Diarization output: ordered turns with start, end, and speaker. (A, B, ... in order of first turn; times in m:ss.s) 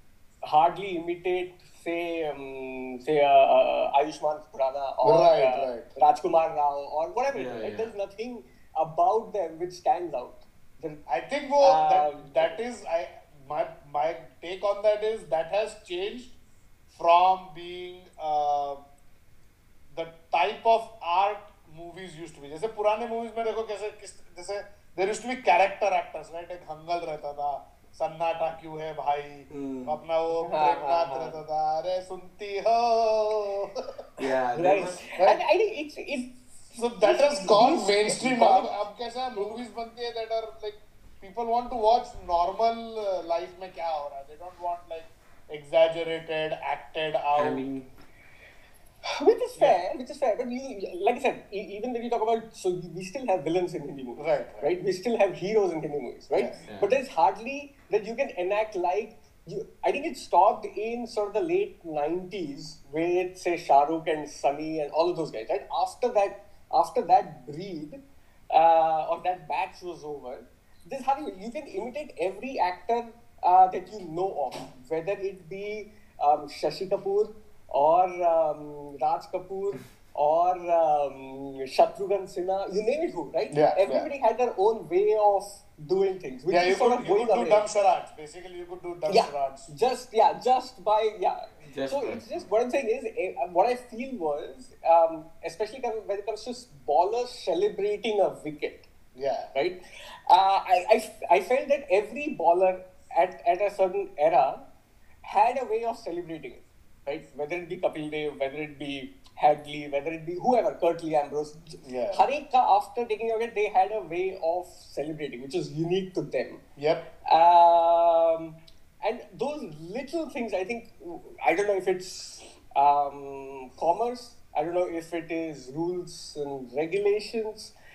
0:00.4-0:11.0 A
0:05.0-0:05.9 B
0:07.3-0:07.9 C
0:11.1-0:16.4 B
0:11.6-0:12.6 A
0:16.9-0:18.8 B
0:19.9-0:34.0 B
0:29.5-0:30.0 C
0:30.4-0:31.4 A
0:34.2-0:35.0 C
0:34.6-0:36.4 A
0:36.7-0:47.6 B
0:37.0-0:38.7 A
0:47.3-0:47.9 C
0:49.0-1:08.0 A
0:54.2-0:54.7 B
0:56.3-0:56.6 B
0:56.7-0:56.9 C
1:08.5-1:27.6 A
1:23.5-1:24.1 B
1:26.5-1:29.7 B
1:29.1-1:38.9 A
1:31.6-1:32.4 C
1:39.1-1:39.5 B
1:39.5-1:44.6 A
1:45.2-1:56.6 A
1:51.8-1:52.2 B
1:56.8-1:57.1 B
1:57.2-2:07.7 A